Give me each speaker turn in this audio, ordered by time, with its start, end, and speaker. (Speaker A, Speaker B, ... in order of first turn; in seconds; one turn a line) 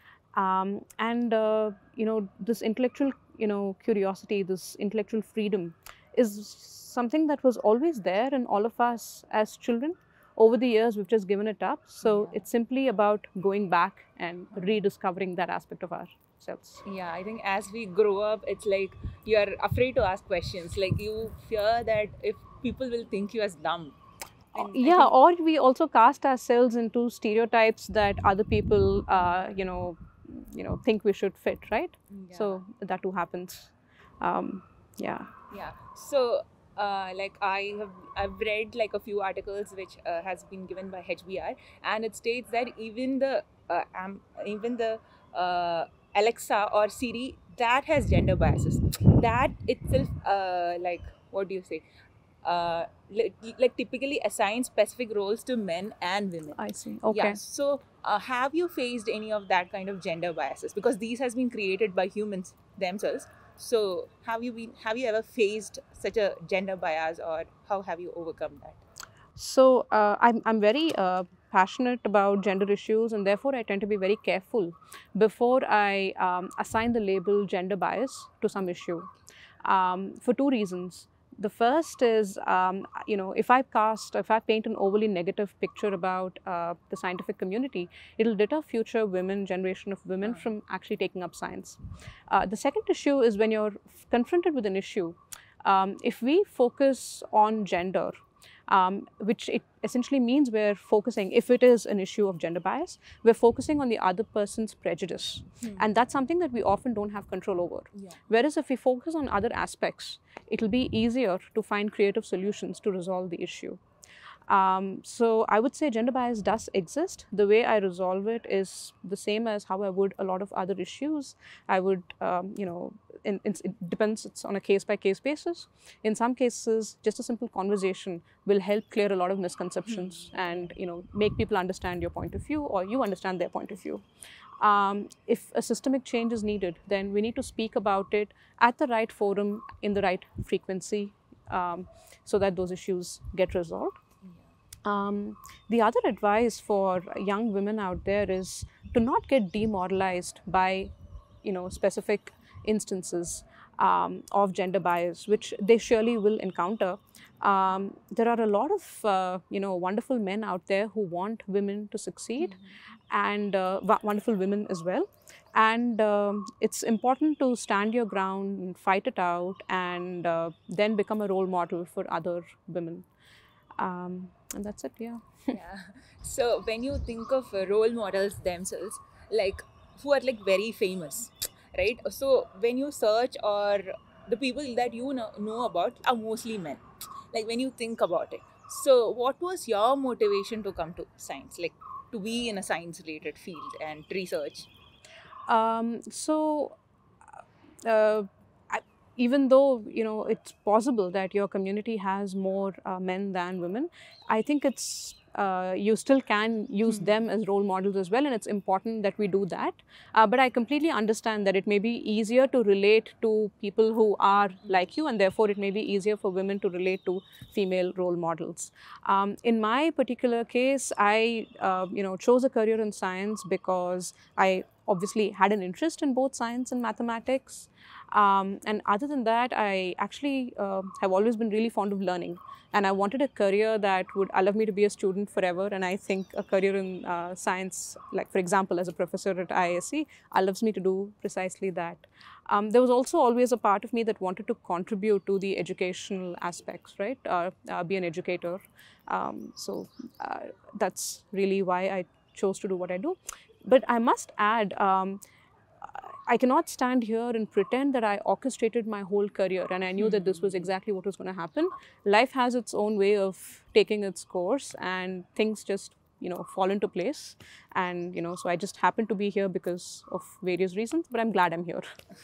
Speaker A: 0.3-16.8
Speaker B: 12.0-12.4
Speaker B: 14.5-14.8
Speaker B: 16.9-24.0
Speaker A: 24.5-35.3
Speaker B: 24.6-25.1
Speaker B: 32.1-32.6
Speaker B: 35.5-51.8
Speaker B: 52.4-68.8
Speaker A: 56.5-57.4
Speaker A: 69.4-79.1
Speaker A: 79.6-98.1
Speaker A: 98.7-113.8
Speaker B: 108.0-108.2
Speaker A: 114.5-134.0
Speaker B: 129.9-130.1
Speaker A: 134.6-144.0
Speaker B: 144.2-144.6
Speaker A: 144.8-150.9
Speaker A: 151.4-162.6
Speaker B: 162.4-162.8
Speaker A: 163.1-173.1
Speaker A: 173.8-175.6
Speaker B: 175.5-194.7
Speaker A: 195.5-196.8
Speaker A: 197.8-255.2
Speaker A: 255.8-271.9
Speaker B: 260.0-260.5